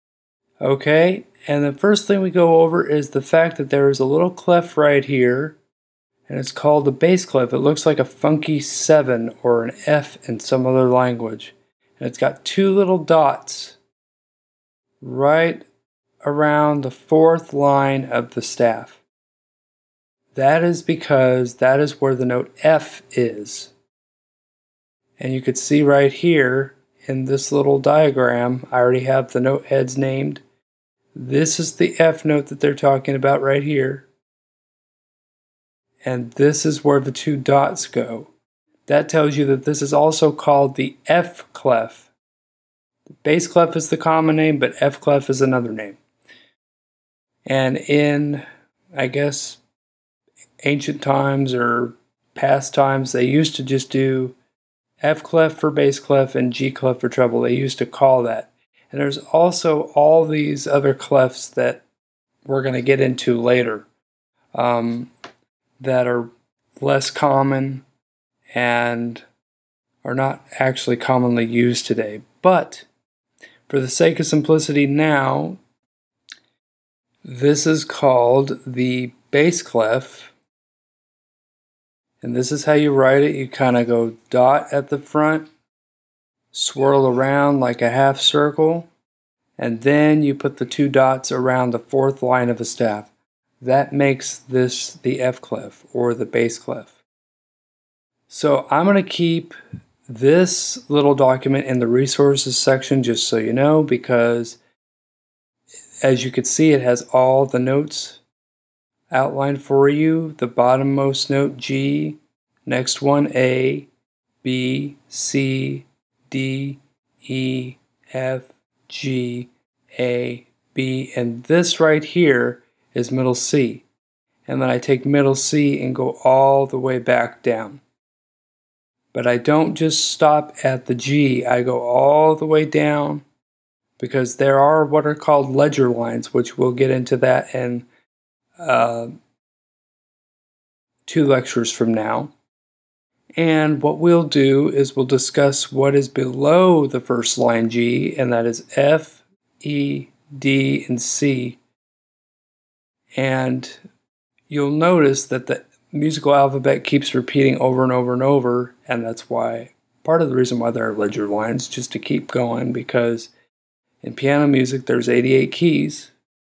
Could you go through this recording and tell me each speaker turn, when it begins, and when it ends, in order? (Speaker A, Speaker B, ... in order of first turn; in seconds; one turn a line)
Speaker A: 0.6-5.6
Speaker A: 6.3-13.8
Speaker A: 15.0-15.7
Speaker A: 16.2-19.0
Speaker A: 20.3-23.7
Speaker A: 25.2-30.4
Speaker A: 31.1-34.1
Speaker A: 36.0-38.3
Speaker A: 38.9-42.1
Speaker A: 43.1-46.0
Speaker A: 47.5-49.6
Speaker A: 50.6-54.4
Speaker A: 55.0-61.8
Speaker A: 62.5-63.9
Speaker A: 64.5-65.1
Speaker A: 65.8-66.3
Speaker A: 66.8-67.9
Speaker A: 68.5-69.2
Speaker A: 70.0-72.9
Speaker A: 73.7-75.6
Speaker A: 77.2-80.3
Speaker A: 82.2-85.5
Speaker A: 86.5-88.9
Speaker A: 89.6-93.1
Speaker A: 93.6-97.0
Speaker A: 98.3-99.5
Speaker A: 100.1-104.6
Speaker A: 106.0-108.2
Speaker A: 109.1-113.9
Speaker A: 114.4-123.9
Speaker A: 124.5-127.8
Speaker A: 129.1-133.2
Speaker A: 134.0-137.9
Speaker A: 138.6-139.2
Speaker A: 141.1-142.3
Speaker A: 143.4-151.6
Speaker A: 153.2-153.8
Speaker A: 154.5-163.3
Speaker A: 164.0-166.1